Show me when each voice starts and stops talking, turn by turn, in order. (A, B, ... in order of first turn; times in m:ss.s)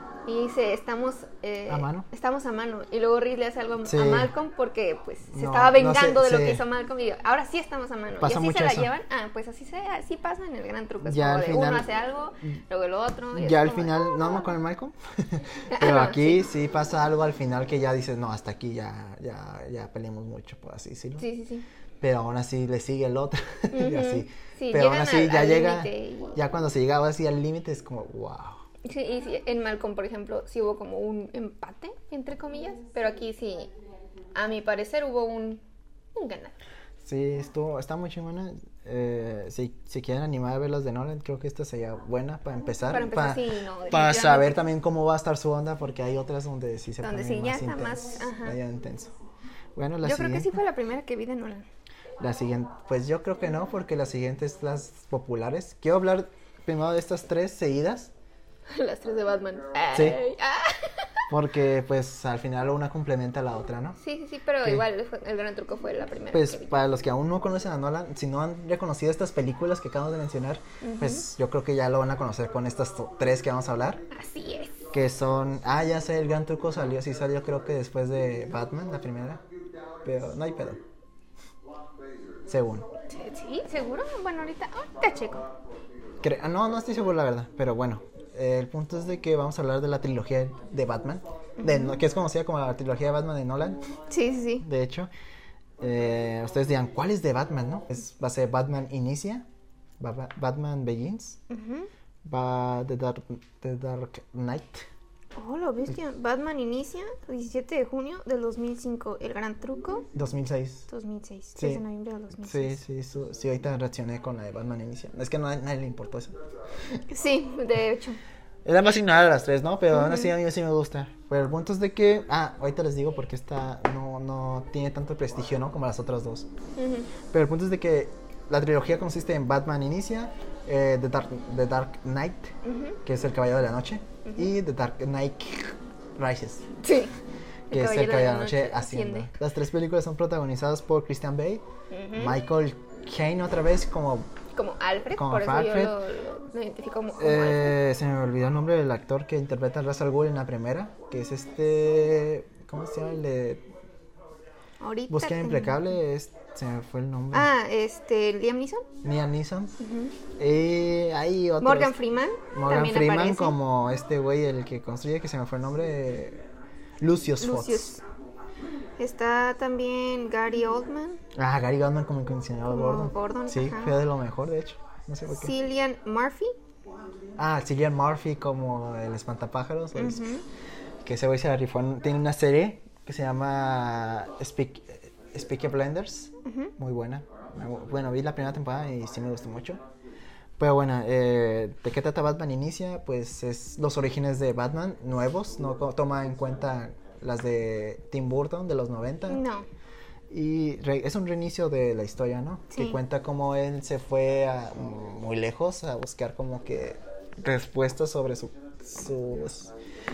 0:00.2-0:14.5 A
0:01.7-0:02.1 B
0:03.8-0:04.3 B
0:05.3-0:06.6 B
0:08.2-0:08.9 B
0:11.0-0:11.9 B
0:13.3-0:21.2 B
0:15.7-0:16.4 A
0:21.2-0:21.6 A
0:22.0-0:28.6 B
0:23.7-0:26.4 A
0:28.8-0:33.7 A
0:34.4-0:35.6 A
0:36.1-0:36.6 A
0:37.0-0:49.1 B
0:42.9-0:44.6 A
0:47.0-0:48.6 A
0:49.8-0:50.6 B
0:50.0-0:51.6 A
0:52.2-0:58.1 B
0:58.7-1:01.2 A
0:59.9-1:00.2 B
1:01.3-1:04.0 B
1:04.0-1:06.8 A
1:06.3-1:14.0 B
1:10.8-1:11.2 A
1:14.1-1:14.8 A
1:14.9-1:19.4 B
1:20.0-1:20.8 B
1:22.5-1:22.9 B
1:23.1-1:25.5 A
1:26.2-1:33.8 B
1:31.6-1:32.0 A
1:34.1-1:34.6 A
1:34.6-1:35.1 B
1:35.8-1:39.5 B
1:40.0-1:41.4 B
1:41.5-1:41.9 A
1:42.2-1:44.8 B
1:45.4-1:50.1 A
1:50.1-1:50.9 B
1:50.9-1:52.8 A
1:51.6-1:51.8 B
1:52.4-1:56.4 B
1:57.1-1:58.2 A
1:58.6-2:06.5 B
1:59.9-2:00.3 A
2:06.8-2:07.1 A
2:07.3-2:12.5 B
2:12.6-2:13.0 A
2:13.0-2:16.6 B
2:14.2-2:14.5 A
2:16.8-2:17.1 A
2:17.7-2:19.3 A
2:17.7-2:21.6 B
2:21.9-2:22.4 A
2:22.1-2:24.3 B
2:24.5-2:27.8 A
2:25.1-2:26.0 B
2:27.2-2:33.6 B
2:34.8-2:35.8 A
2:35.1-2:37.5 B
2:37.3-2:38.8 A
2:39.0-2:39.8 B
2:39.8-2:40.1 A
2:40.4-2:42.0 B
2:41.6-2:43.6 A
2:42.5-2:46.4 B
2:47.0-2:48.0 B
2:47.4-2:48.0 A
2:49.0-2:51.2 A
2:51.3-2:55.5 B
2:52.7-2:54.0 A
2:55.3-2:56.5 A
2:57.4-3:00.4 B
3:00.0-3:00.4 A
3:01.0-3:09.8 B
3:06.4-3:06.7 A
3:10.6-3:19.4 B
3:19.3-3:19.6 A
3:20.3-3:29.7 B
3:22.7-3:23.0 A